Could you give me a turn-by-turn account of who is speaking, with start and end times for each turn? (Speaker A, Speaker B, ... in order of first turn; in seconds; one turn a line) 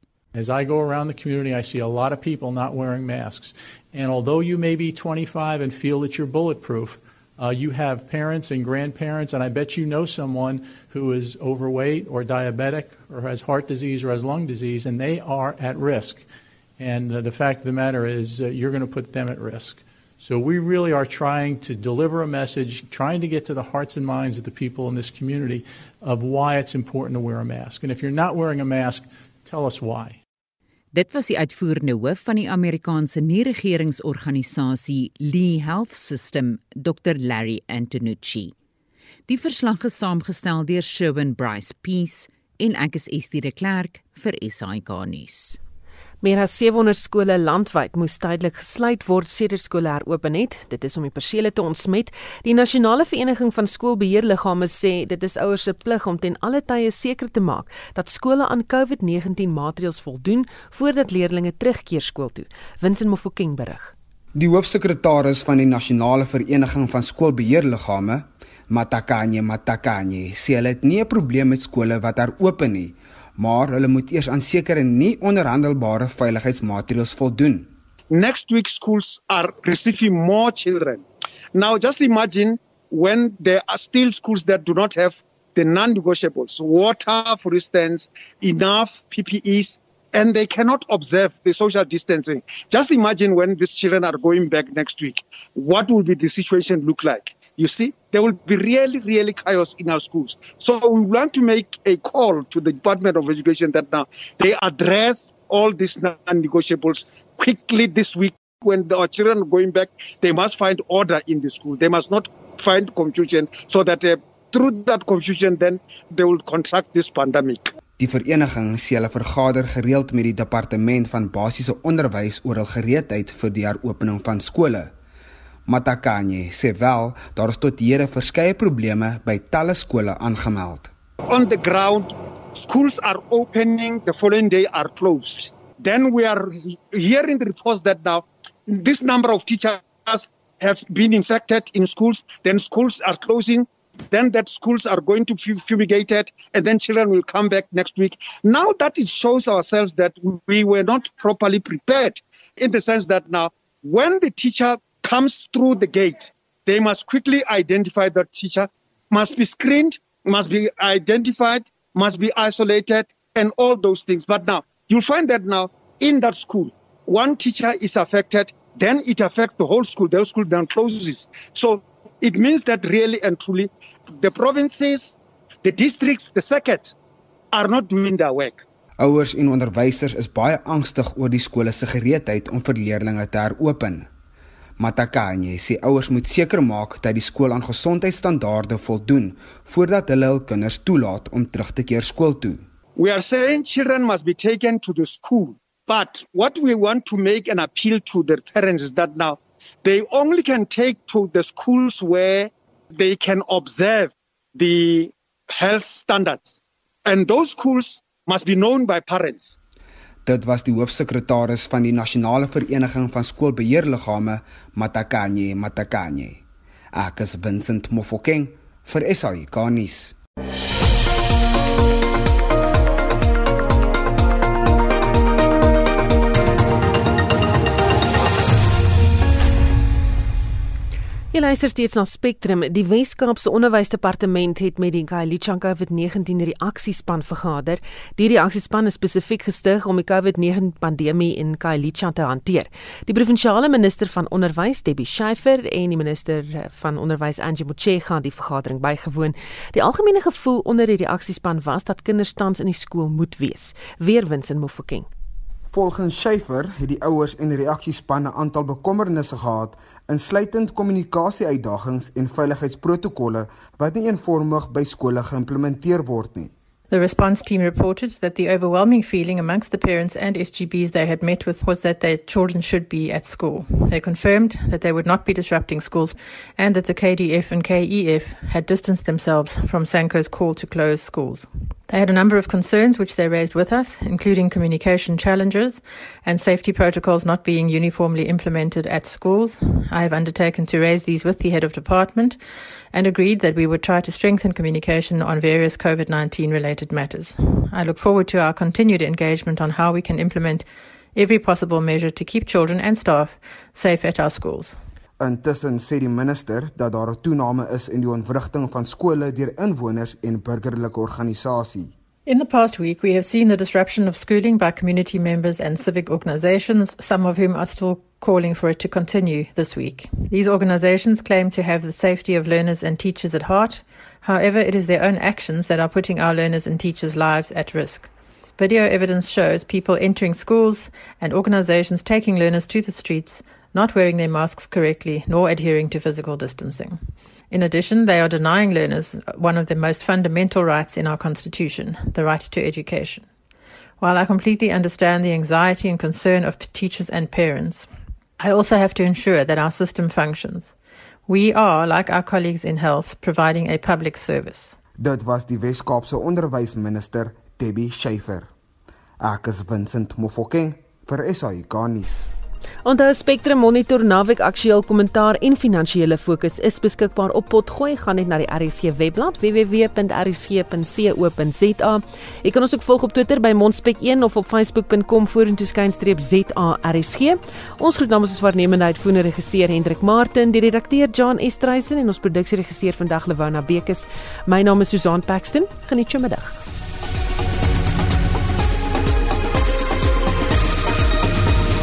Speaker A: 0.3-16.2
Speaker A: 16.8-30.2
Speaker B: 30.9-38.5
Speaker B: 39.3-45.6
Speaker C: 46.2-63.9
Speaker D: 64.3-77.7
Speaker E: 78.1-117.7
Speaker D: 118.0-124.9
Speaker D: 125.7-130.9
Speaker E: 131.3-176.9
Speaker E: 177.5-178.6
Speaker D: 179.0-184.1
Speaker D: 184.8-192.6
Speaker E: 193.0-209.6
Speaker D: 210.2-216.4
Speaker D: 216.9-220.1
Speaker C: 231.3-255.1
Speaker D: 255.7-266.5
Speaker F: 266.9-292.4
Speaker F: 292.9-300.6
Speaker F: 301.1-304.8
Speaker D: 305.2-311.9
Speaker F: 312.3-337.0
Speaker F: 337.5-343.2
Speaker F: 344.0-347.9
Speaker F: 348.4-350.7
Speaker F: 351.3-354.8
Speaker D: 355.0-358.5
Speaker D: 359.2-362.3
Speaker C: 362.8-386.6